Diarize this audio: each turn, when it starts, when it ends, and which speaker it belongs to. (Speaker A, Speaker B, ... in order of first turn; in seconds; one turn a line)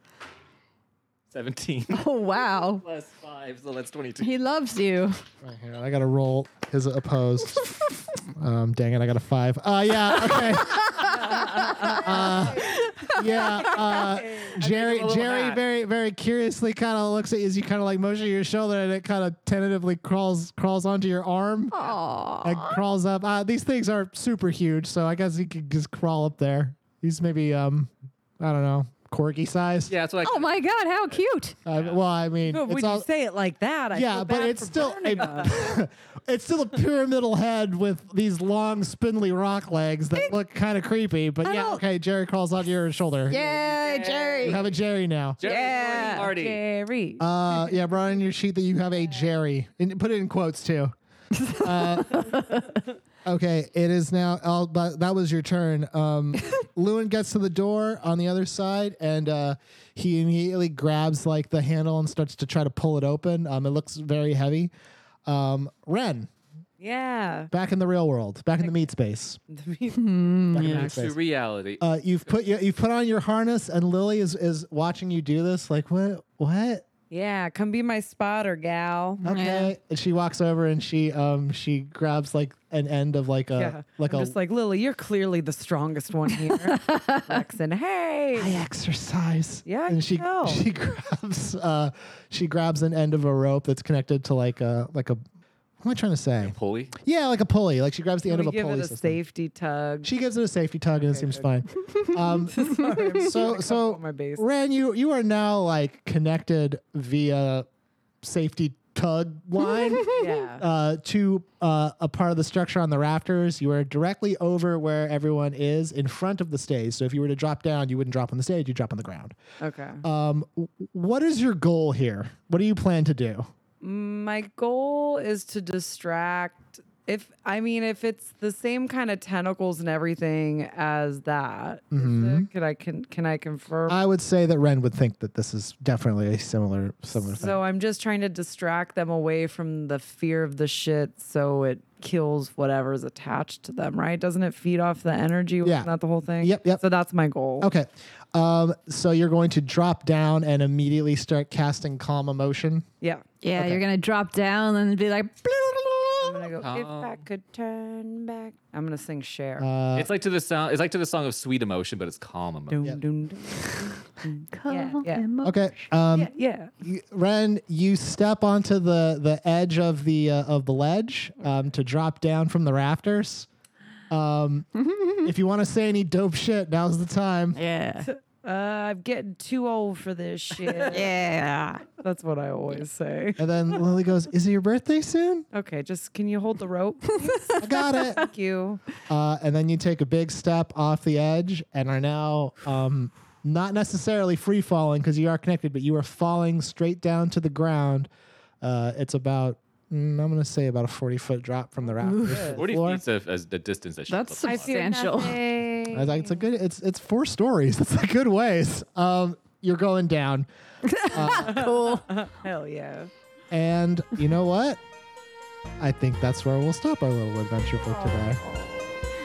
Speaker A: 1.3-4.3
Speaker B: 1.9-2.8
Speaker B: 4.2-5.2
Speaker C: 5.4-21.8
Speaker B: 10.3-14.2
Speaker D: 11.0-12.8
Speaker D: 13.4-14.6
Speaker A: 14.6-15.6
Speaker B: 21.7-22.8
Speaker C: 22.4-29.9
Speaker A: 29.9-30.5
Speaker B: 30.2-31.6
Speaker A: 31.1-32.0
Speaker C: 31.7-33.1
Speaker D: 32.5-35.6
Speaker C: 33.9-43.4
Speaker B: 41.4-41.8
Speaker B: 43.3-44.7
Speaker A: 43.5-44.6
Speaker C: 44.4-45.4
Speaker A: 45.4-46.6
Speaker B: 45.4-46.3
Speaker D: 45.5-47.8
Speaker C: 47.2-50.9
Speaker B: 51.3-52.7
Speaker C: 51.5-52.4
Speaker C: 53.2-64.7
Speaker C: 65.3-66.3
Speaker D: 66.8-67.5
Speaker C: 67.5-69.4
Speaker D: 68.6-68.9
Speaker D: 69.5-70.1
Speaker B: 69.9-71.0
Speaker C: 70.5-71.2
Speaker A: 70.6-72.5
Speaker C: 71.8-76.8
Speaker D: 77.1-79.2
Speaker B: 79.2-79.7
Speaker C: 79.2-84.3
Speaker D: 83.6-88.6
Speaker B: 86.5-87.4
Speaker C: 88.4-95.2
Speaker D: 89.7-90.7
Speaker C: 95.8-99.2
Speaker A: 96.4-96.9
Speaker D: 98.2-100.1
Speaker C: 100.0-107.7
Speaker D: 101.0-101.6
Speaker B: 101.9-103.2
Speaker D: 102.5-104.4
Speaker C: 108.2-119.3
Speaker B: 109.6-110.4
Speaker D: 110.1-110.7
Speaker D: 119.6-120.0
Speaker C: 120.0-123.5
Speaker D: 123.8-134.0
Speaker C: 131.9-132.5
Speaker C: 133.9-137.6
Speaker D: 137.2-147.7
Speaker C: 145.6-145.9
Speaker C: 146.4-146.8
Speaker C: 147.6-152.9
Speaker B: 153.4-156.6
Speaker C: 153.6-153.8
Speaker D: 156.2-159.7
Speaker A: 156.6-157.3
Speaker C: 159.6-160.1
Speaker A: 160.0-162.8
Speaker D: 162.7-165.3
Speaker C: 163.6-163.9
Speaker B: 164.5-165.9
Speaker C: 165.4-166.3
Speaker D: 166.1-166.7
Speaker C: 166.8-173.5
Speaker C: 174.1-174.7
Speaker B: 174.8-175.3
Speaker C: 175.2-177.6
Speaker B: 177.5-178.1
Speaker D: 178.0-181.1
Speaker B: 180.8-181.8
Speaker D: 182.0-183.8
Speaker C: 183.4-185.5
Speaker D: 185.5-188.8
Speaker B: 187.2-188.3
Speaker C: 187.6-188.2
Speaker C: 189.1-198.1
Speaker C: 198.6-203.0
Speaker D: 201.8-202.6
Speaker B: 202.0-202.6
Speaker A: 202.6-205.0
Speaker B: 204.1-205.4
Speaker D: 204.4-206.4
Speaker C: 205.9-210.5
Speaker B: 210.8-212.1
Speaker C: 211.0-211.7
Speaker D: 211.2-213.1
Speaker C: 213.5-214.8
Speaker C: 215.8-218.4
Speaker D: 217.9-219.1